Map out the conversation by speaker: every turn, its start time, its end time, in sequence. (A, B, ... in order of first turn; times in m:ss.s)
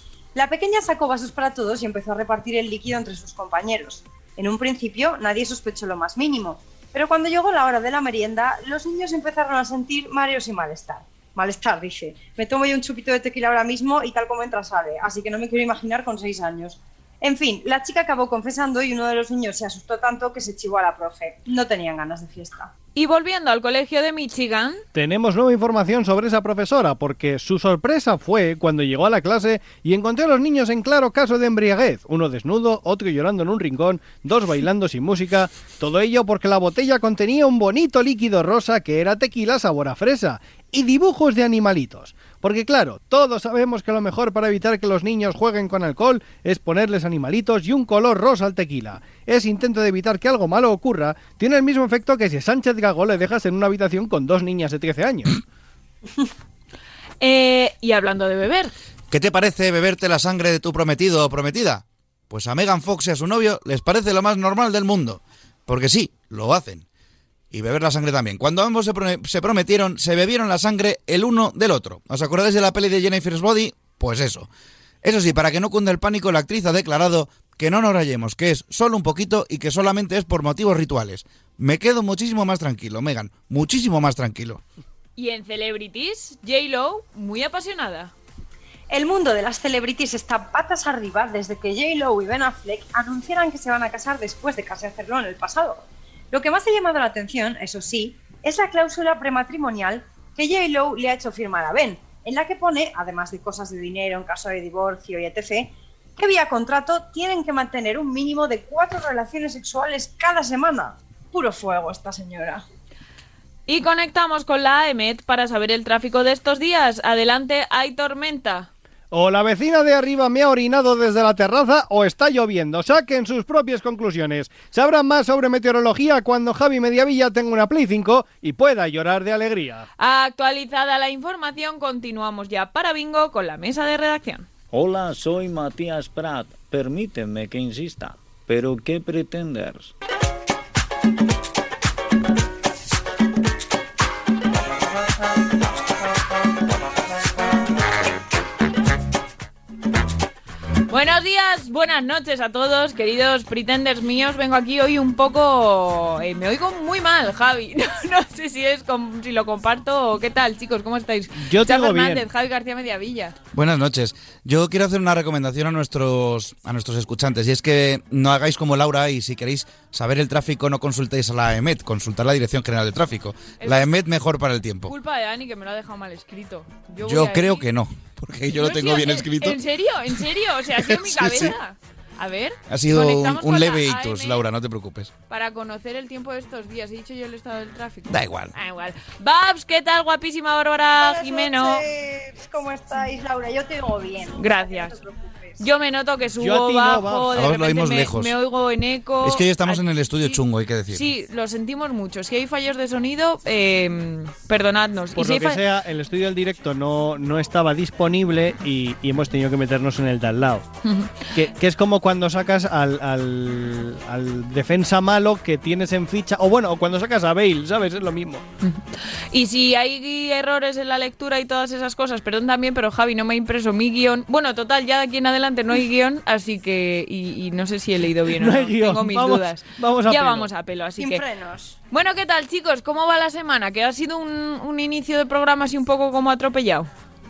0:00.3-0:22.7 A
0:22.9-0:24.8 B
0:24.9-0:55.4 C
0:57.2-0:58.7 B
0:59.1-1:06.8 D
1:07.5-1:14.5 D
1:15.0-1:24.6 D
1:25.2-1:28.1 B
1:28.9-1:52.6 A
1:53.7-1:58.7 B
1:59.1-2:09.8 C
2:10.0-2:14.5 B
2:14.7-2:19.9 E
2:30.9-2:43.4 B
2:41.4-2:42.2 C
2:43.5-2:54.9 D
2:53.6-2:54.0 B
2:54.8-2:57.7 B
2:57.0-2:59.6 D
2:58.5-3:04.4 B
3:00.8-3:01.5 D
3:02.7-3:05.1 D
3:05.3-3:11.8 B
3:08.1-3:08.5 D
3:11.0-3:15.6 A
3:14.4-3:15.0 B
3:15.6-3:25.6 B
3:16.4-3:17.4 C
3:17.3-3:18.4 D
3:19.2-3:21.1 D
3:25.1-3:30.7 C
3:30.8-3:31.3 B
3:31.3-3:38.4 C
3:38.6-3:51.2 B
3:48.3-3:50.5 C
3:51.0-3:51.8 A
3:51.9-3:56.9 B